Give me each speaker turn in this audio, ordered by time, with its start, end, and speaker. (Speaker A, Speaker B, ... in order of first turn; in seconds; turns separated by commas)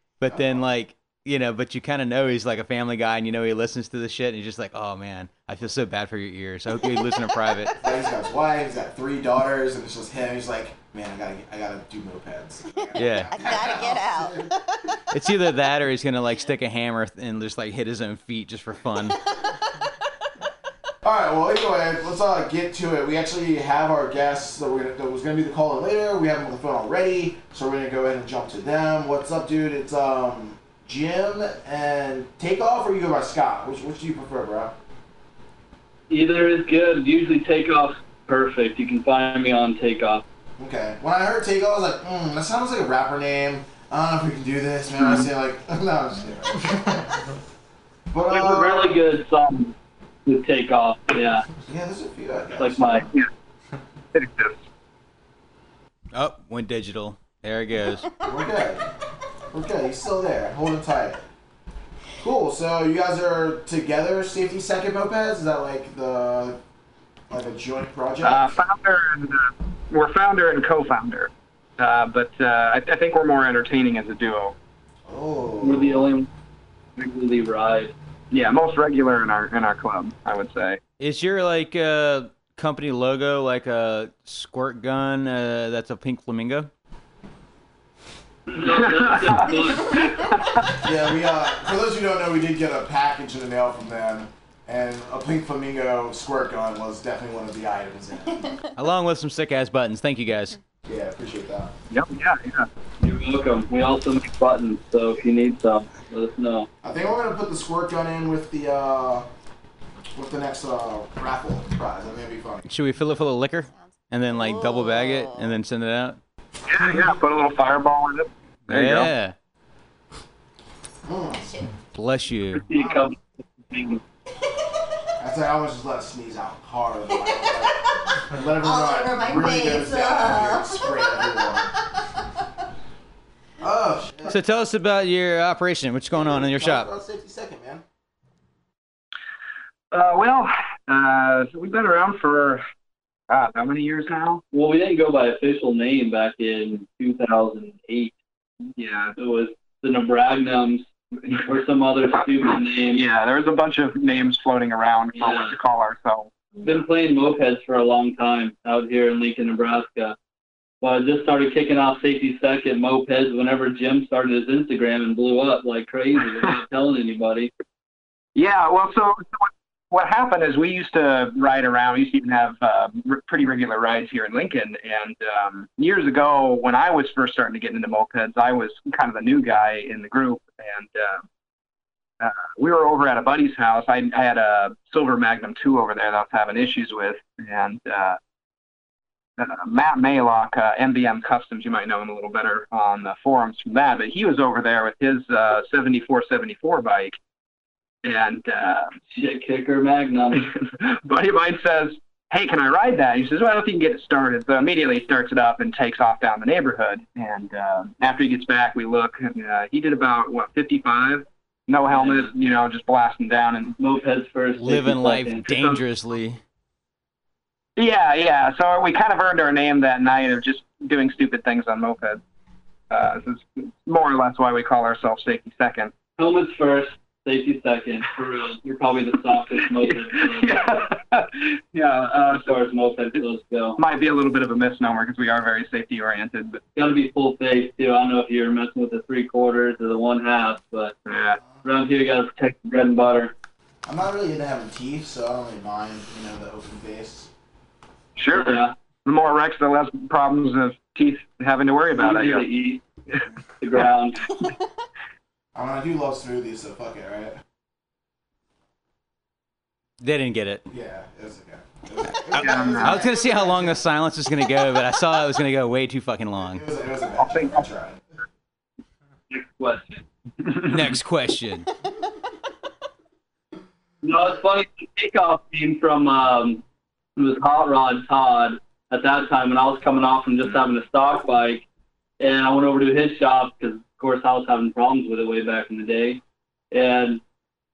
Speaker A: 0.2-7.7, Speaker B: 0.2-0.7, Speaker B: 7.8-14.5, Speaker A: 12.9-13.3, Speaker C: 13.3-14.8, Speaker A: 15.1-19.2, Speaker C: 19.2-19.5, Speaker B: 21.0-34.8, Speaker D: 36.1-40.2, Speaker B: 40.6-47.2, Speaker B: 48.1-49.0, Speaker D: 48.3-49.7, Speaker D: 50.2-51.4, Speaker B: 51.6-53.2, Speaker D: 52.6-53.0, Speaker E: 54.1-54.6, Speaker A: 56.1-58.1, Speaker B: 58.2-58.9, Speaker B: 59.5-61.2, Speaker B: 62.2-66.6, Speaker B: 67.3-68.6, Speaker E: 68.2-74.5, Speaker B: 75.0-76.1, Speaker D: 75.6-76.3, Speaker D: 77.0-77.9, Speaker E: 78.3-80.8, Speaker A: 81.0-86.7, Speaker D: 88.5-90.0, Speaker E: 88.6-90.8, Speaker B: 90.8-98.6, Speaker A: 98.8-100.6, Speaker B: 100.8-101.7, Speaker E: 101.9-102.7, Speaker D: 103.0-106.7, Speaker B: 106.8-109.3, Speaker B: 110.1-112.7, Speaker A: 112.7-116.2, Speaker C: 113.7-115.6, Speaker E: 116.7-119.1, Speaker A: 118.7-119.3, Speaker B: 121.0-121.5, Speaker A: 121.9-122.7, Speaker D: 122.7-124.0, Speaker B: 122.7-123.1, Speaker B: 125.2-131.7, Speaker C: 127.4-128.0, Speaker C: 128.6-131.3, Speaker B: 133.6-134.4, Speaker A: 134.2-136.9, Speaker B: 136.1-137.8, Speaker E: 139.9-142.6, Speaker E: 143.3-144.4, Speaker D: 144.5-148.1, Speaker E: 148.8-149.1, Speaker D: 149.2-150.8, Speaker D: 151.4-153.0, Speaker E: 152.9-156.8, Speaker D: 155.2-155.5, Speaker D: 156.6-160.1, Speaker D: 160.8-167.5, Speaker E: 168.3-181.2, Speaker E: 182.2-188.2, Speaker E: 189.4-197.2, Speaker E: 198.0-198.9, Speaker D: 199.1-200.4, Speaker E: 200.3-213.7, Speaker D: 212.0-212.2, Speaker D: 213.8-215.4, Speaker A: 214.6-216.4, Speaker E: 215.4-215.8, Speaker E: 217.8-222.2, Speaker E: 222.9-225.9, Speaker D: 226.2-230.6, Speaker E: 230.1-232.5, Speaker D: 232.3-233.8, Speaker E: 233.8-236.6, Speaker D: 236.8-240.9, Speaker E: 241.1-241.4, Speaker D: 241.6-243.3, Speaker B: 243.8-247.3, Speaker E: 248.2-252.5, Speaker D: 248.3-248.7, Speaker D: 251.9-252.8, Speaker D: 253.6-254.2, Speaker B: 255.5-257.4, Speaker A: 260.0-260.7, Speaker B: 260.7-263.8, Speaker A: 262.3-266.6, Speaker E: 262.3-263.0, Speaker B: 266.5-268.0, Speaker E: 267.2-267.6, Speaker D: 269.3-269.9, Speaker A: 270.6-271.7, Speaker D: 274.0-276.6, Speaker D: 277.1-281.6, Speaker D: 282.2-286.2, Speaker D: 286.7-287.2